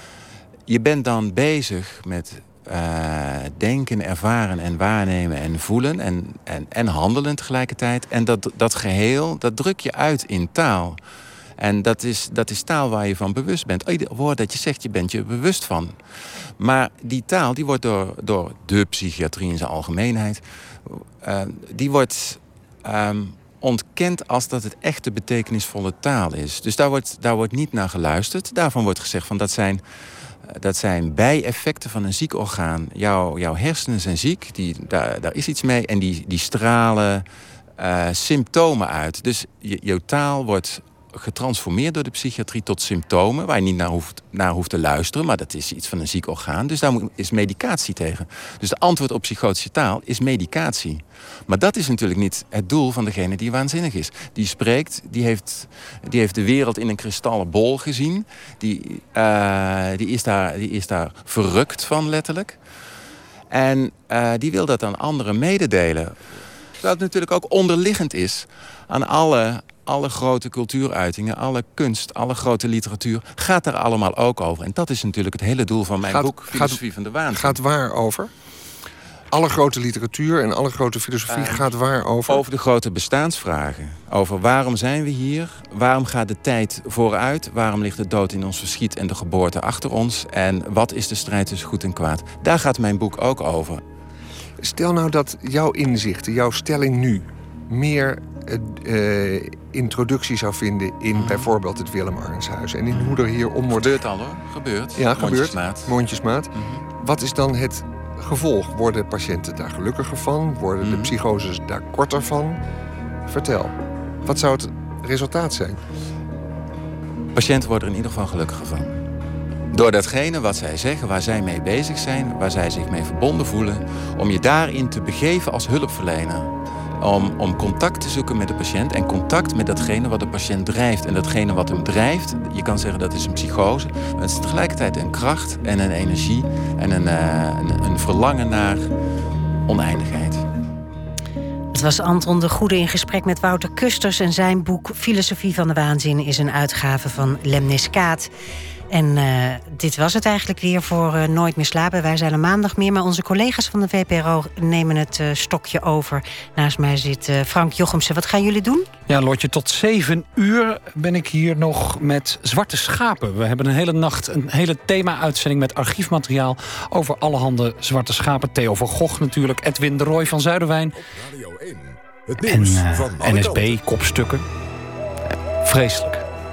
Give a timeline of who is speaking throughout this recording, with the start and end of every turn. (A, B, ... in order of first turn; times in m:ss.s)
0:00.7-0:11.0 A
0:11.6-0:16.0 A
0:16.6-0:37.3 A
0:37.8-1:02.6 A
1:03.5-1:17.6 A
1:16.0-1:18.3 B
1:19.3-1:22.4 B
1:21.3-1:21.7 A
1:22.3-1:33.8 A
1:34.6-1:44.0 B
1:41.1-1:41.5 A
1:42.9-1:46.0 A
1:45.0-1:52.6 B
1:46.5-1:46.8 A
1:50.8-1:51.2 A
1:53.3-1:55.8 B
1:57.3-1:59.0 A
1:59.7-2:18.9 A
2:19.7-2:20.4 A
2:21.7-2:28.3 C
2:28.9-2:39.0 C
2:39.1-2:50.9 D
2:50.9-2:53.9 E
2:52.5-2:54.4 D
2:55.6-2:56.2 D